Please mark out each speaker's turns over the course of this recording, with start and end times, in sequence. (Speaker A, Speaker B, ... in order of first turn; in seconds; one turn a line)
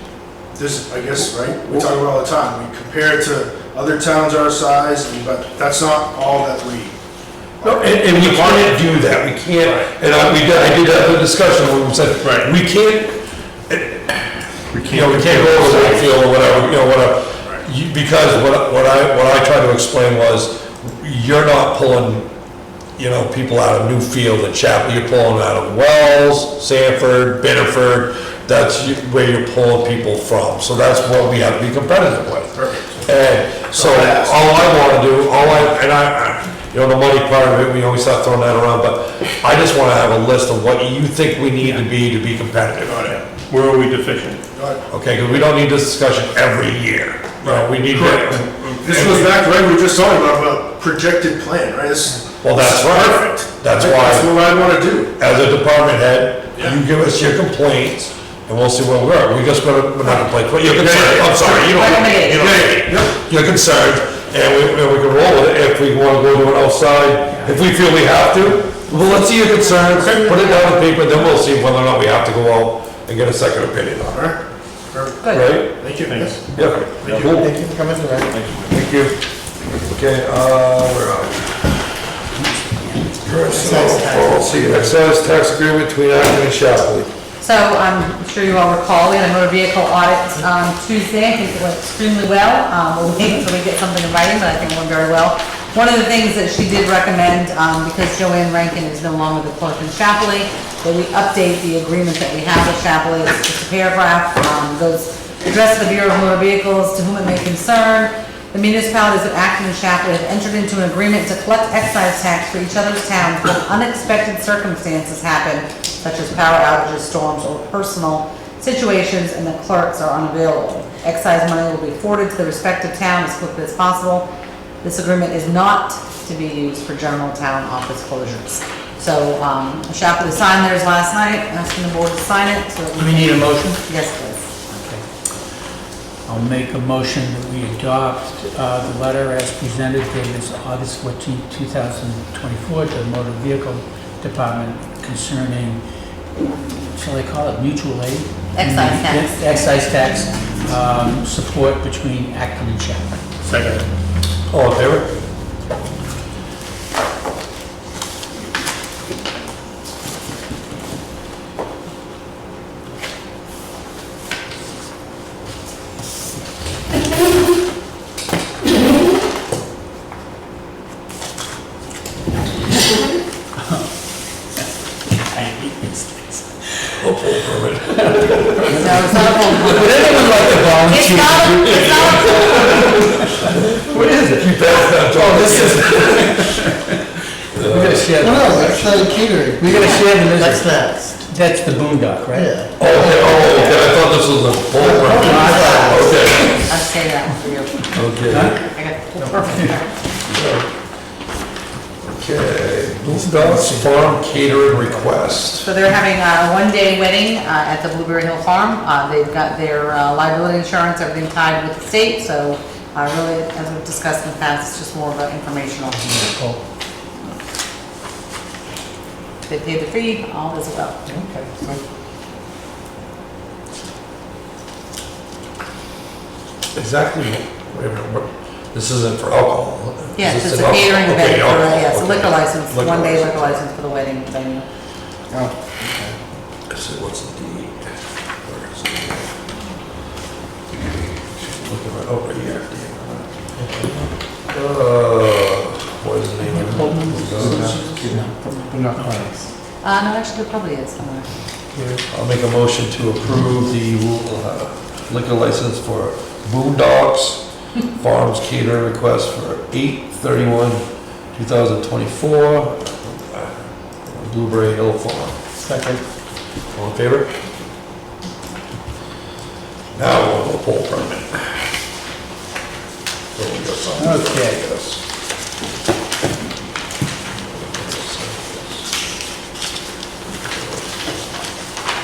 Speaker A: 0.6-7.0
Speaker A: 7.6-8.8
Speaker B: 7.6-13.2
Speaker A: 9.6-9.9
Speaker C: 12.2-12.5
Speaker B: 13.7-22.3
Speaker C: 14.7-16.8
Speaker B: 23.0-43.1
Speaker A: 32.5-33.1
Speaker A: 33.7-34.8
Speaker A: 42.8-43.2
Speaker C: 43.4-44.4
Speaker A: 44.5-45.5
Speaker B: 44.9-49.2
Speaker A: 47.4-47.9
Speaker C: 47.9-49.3
Speaker A: 48.8-55.1
Speaker B: 52.4-54.4
Speaker B: 55.2-74.3
Speaker A: 56.5-56.8
Speaker A: 60.7-61.7
Speaker D: 61.6-62.5
Speaker A: 62.4-63.1
Speaker D: 69.5-71.2
Speaker A: 74.1-74.4
Speaker A: 74.9-76.3
Speaker D: 75.2-75.6
Speaker B: 75.3-75.8
Speaker C: 76.0-77.5
Speaker B: 76.5-77.6
Speaker A: 77.0-77.3
Speaker E: 77.3-78.3
Speaker C: 78.3-78.8
Speaker B: 78.7-79.2
Speaker B: 79.9-81.7
Speaker B: 83.2-87.1
Speaker E: 83.5-84.8
Speaker D: 87.4-124.3
Speaker D: 124.8-134.5
Speaker F: 133.0-133.8
Speaker F: 134.7-135.0
Speaker F: 136.3-145.8
Speaker F: 146.9-153.2
Speaker D: 148.5-149.4
Speaker C: 153.4-153.8
Speaker B: 154.5-155.1
Speaker F: 175.5-175.9
Speaker B: 177.0-179.3
Speaker F: 178.6-186.9
Speaker D: 178.7-182.8
Speaker B: 181.5-186.4
Speaker B: 187.5-188.6
Speaker F: 187.6-193.9
Speaker E: 188.3-191.2
Speaker D: 189.8-190.1
Speaker E: 192.3-193.4
Speaker B: 192.8-196.7
Speaker E: 194.8-196.1
Speaker F: 194.8-196.0
Speaker D: 195.2-199.9
Speaker B: 197.9-198.6
Speaker F: 198.3-199.7
Speaker B: 200.3-200.7
Speaker B: 202.1-205.7
Speaker F: 203.0-205.2
Speaker D: 205.6-216.3
Speaker F: 216.1-216.6
Speaker D: 219.4-221.0
Speaker E: 221.3-221.7
Speaker B: 226.7-233.6
Speaker D: 230.2-234.7
Speaker E: 235.3-236.2
Speaker B: 236.7-237.9
Speaker B: 238.4-239.3
Speaker B: 241.1-243.3
Speaker E: 243.6-243.9
Speaker B: 244.5-247.8
Speaker F: 246.4-249.3
Speaker E: 247.4-249.4
Speaker D: 249.8-251.3
Speaker F: 251.7-252.0
Speaker B: 252.1-260.8
Speaker B: 261.3-265.4
Speaker F: 265.6-266.0
Speaker B: 266.7-267.3
Speaker B: 269.9-271.7
Speaker B: 273.4-275.0
Speaker F: 274.0-274.6
Speaker B: 277.5-278.9
Speaker B: 280.5-281.2